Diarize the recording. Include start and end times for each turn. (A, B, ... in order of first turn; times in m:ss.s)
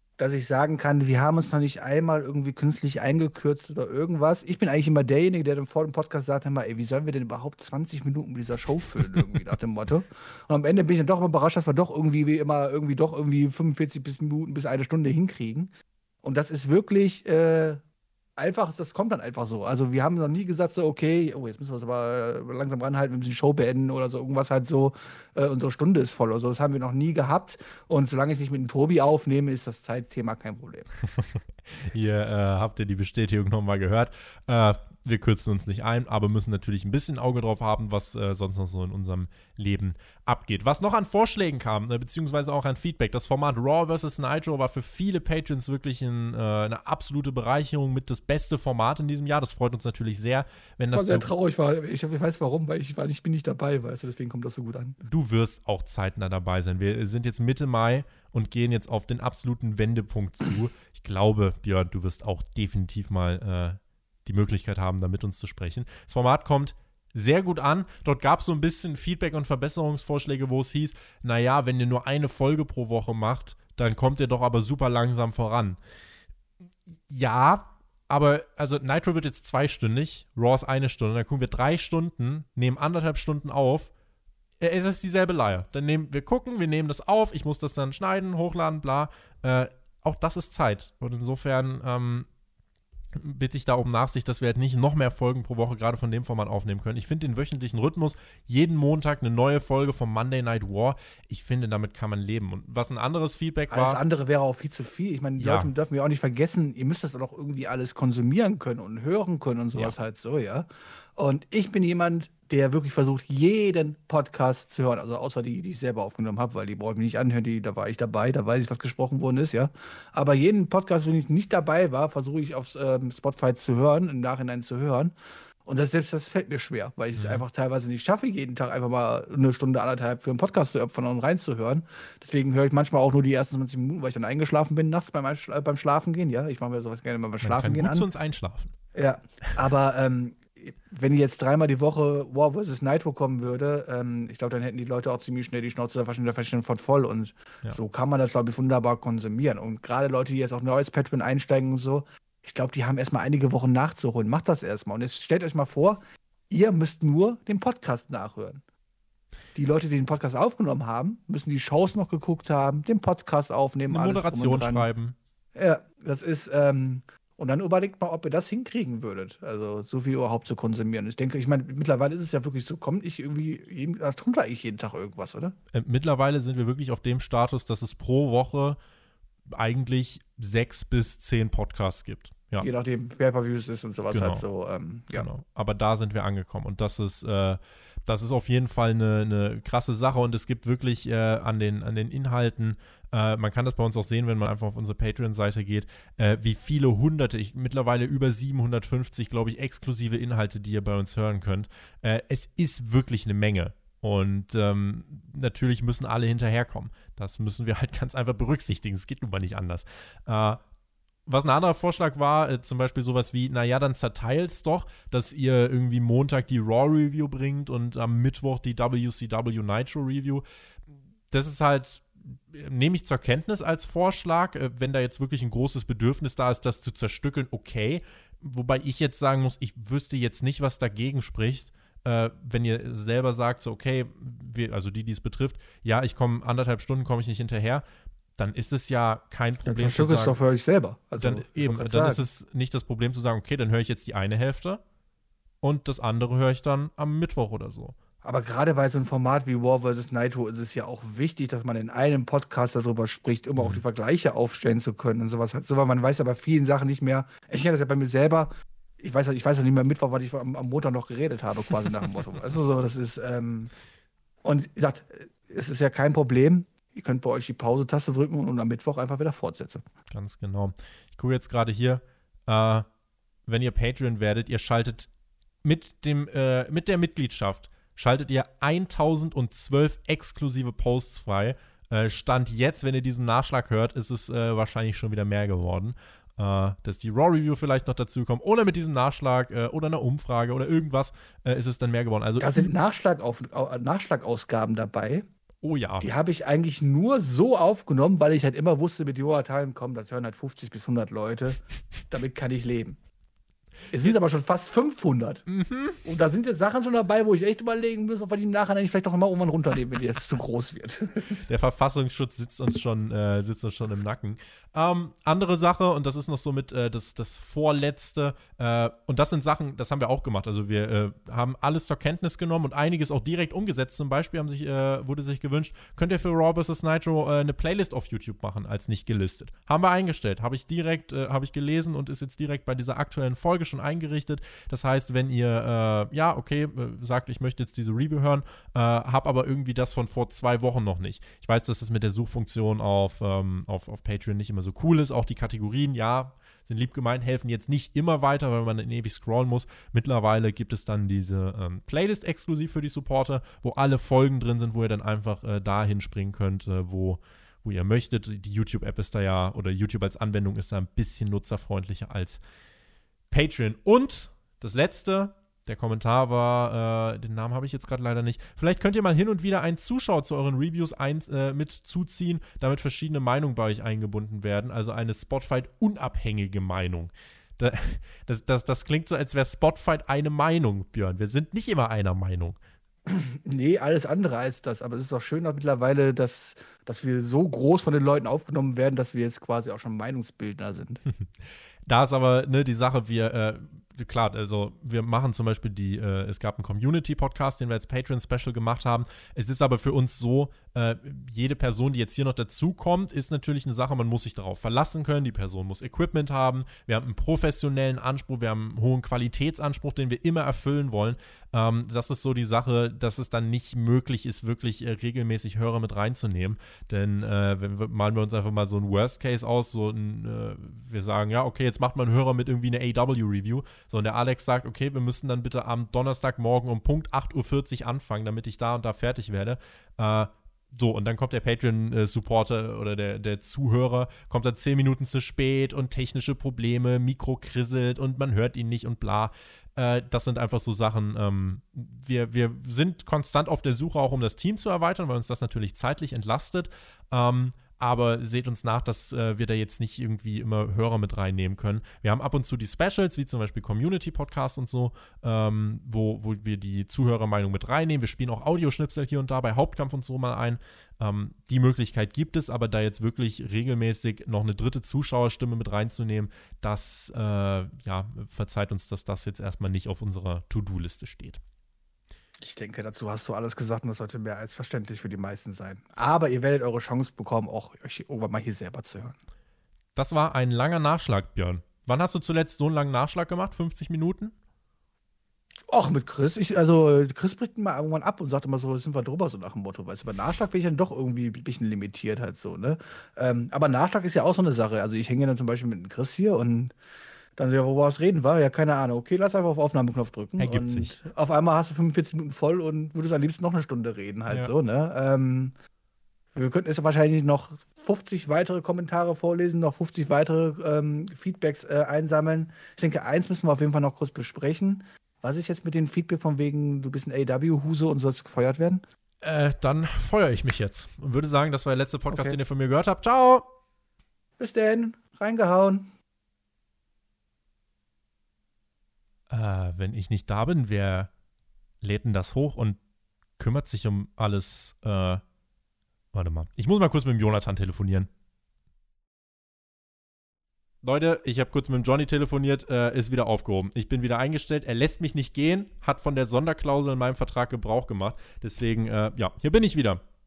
0:00.2-0:15.7 A
0:16.2-0:17.8 A
0:18.4-0:30.9 A
0:31.1-0:51.3 B
0:50.9-0:55.0 A
0:55.0-1:15.8 B
1:17.1-1:23.9 B
1:24.6-1:32.3 B
1:33.1-1:44.0 B
1:43.7-2:05.1 A
1:45.4-1:45.7 B
2:05.6-2:18.1 A
2:07.2-2:07.4 B
2:17.4-2:18.7 B
2:19.0-2:38.6 A
2:39.6-2:44.9 A
2:43.9-2:45.2 B
2:45.6-2:55.6 A
2:55.7-2:58.8 B
2:59.5-3:02.7 B
3:02.6-3:05.3 A
3:04.1-3:04.4 B
3:05.2-3:30.6 B
3:31.3-3:40.4 B
3:41.3-3:57.8 B
3:58.4-4:00.4 B
3:59.6-4:02.3 A
4:01.2-4:04.8 B
4:05.6-4:08.0 B
4:08.2-4:23.7 A
4:24.4-4:29.8 A
4:30.1-4:32.8 B
4:33.5-4:35.1 B
4:35.6-4:52.7 B
4:52.4-4:55.2 A
4:55.6-4:56.1 B
4:56.0-5:03.0 A
5:03.9-5:05.5 A
5:05.5-5:06.0 B
5:06.0-5:11.5 A
5:11.5-6:02.4 B
6:03.3-6:22.6 B
6:23.1-6:31.0 A
6:31.9-7:51.4 B
7:52.4-7:59.2 A
8:00.0-8:04.3 B
8:05.7-8:16.7 A
8:17.4-8:25.6 A
8:20.4-8:21.0 B
8:26.4-8:38.8 A
8:39.2-8:43.4 B
8:42.1-8:42.4 A
8:44.4-8:45.9 A
8:49.3-8:51.1 B
8:51.8-8:52.8 B
8:53.4-8:55.2 B
8:56.1-8:58.1 B
9:00.8-9:10.0 B